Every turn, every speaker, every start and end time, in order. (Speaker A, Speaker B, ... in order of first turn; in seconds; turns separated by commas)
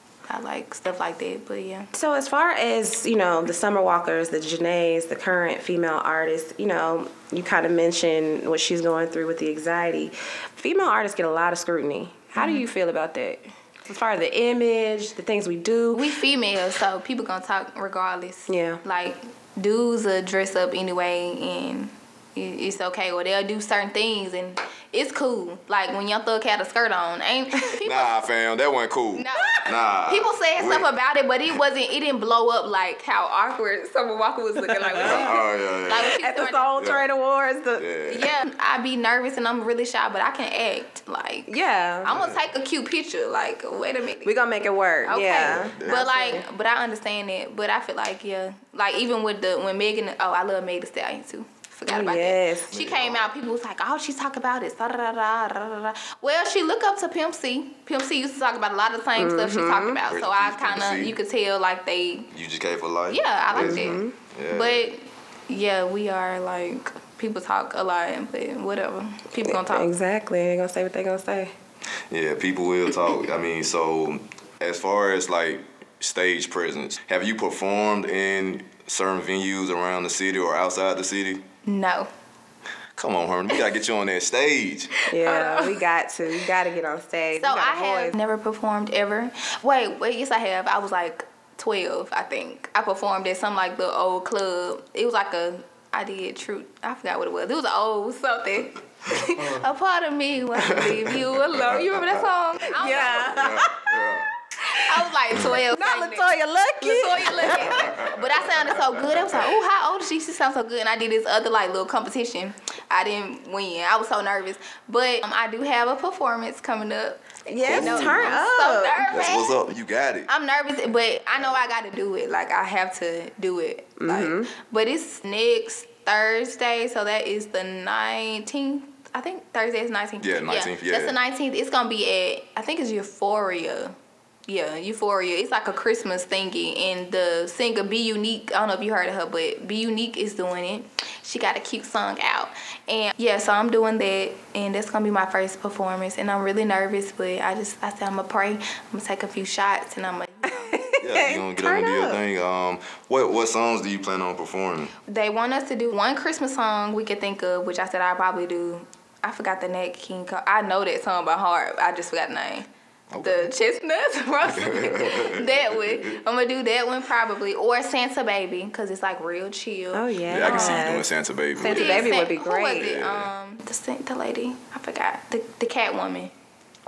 Speaker A: 0.3-1.9, Speaker B: 1.9-16.1, Speaker A: 12.4-12.7, Speaker A: 15.9-28.2, Speaker B: 18.5-18.8, Speaker C: 27.8-30.9, Speaker A: 29.1-36.8, Speaker B: 34.6-35.3, Speaker C: 35.0-36.2, Speaker B: 36.2-37.9, Speaker C: 36.8-37.1, Speaker C: 37.8-38.3, Speaker A: 38.1-44.4, Speaker B: 41.5-42.1, Speaker C: 42.1-42.4, Speaker B: 44.2-46.4, Speaker A: 45.0-62.3, Speaker C: 45.4-46.1, Speaker B: 51.9-52.7, Speaker C: 52.7-53.3, Speaker B: 59.2-60.0, Speaker C: 60.1-61.2, Speaker C: 62.3-64.9, Speaker A: 63.1-69.9, Speaker B: 63.6-64.2, Speaker B: 69.5-71.5, Speaker C: 72.1-81.5, Speaker A: 81.7-82.1, Speaker C: 83.0-84.9, Speaker B: 85.1-88.2, Speaker A: 85.2-85.8, Speaker A: 87.4-103.5, Speaker C: 100.6-102.3, Speaker B: 102.7-103.9, Speaker C: 102.9-104.3, Speaker A: 104.8-119.6, Speaker B: 105.3-107.9, Speaker C: 107.7-109.5, Speaker B: 117.5-119.1, Speaker C: 117.7-118.4, Speaker C: 119.1-120.3, Speaker A: 120.3-133.9, Speaker B: 124.0-124.5, Speaker C: 130.2-131.2, Speaker A: 134.5-151.0, Speaker B: 150.5-152.2, Speaker C: 151.0-154.9, Speaker A: 155.1-162.7, Speaker C: 163.1-163.5, Speaker A: 163.2-171.0, Speaker C: 164.4-166.2, Speaker B: 169.9-173.0, Speaker C: 170.3-172.1, Speaker A: 171.6-176.3, Speaker C: 172.8-173.3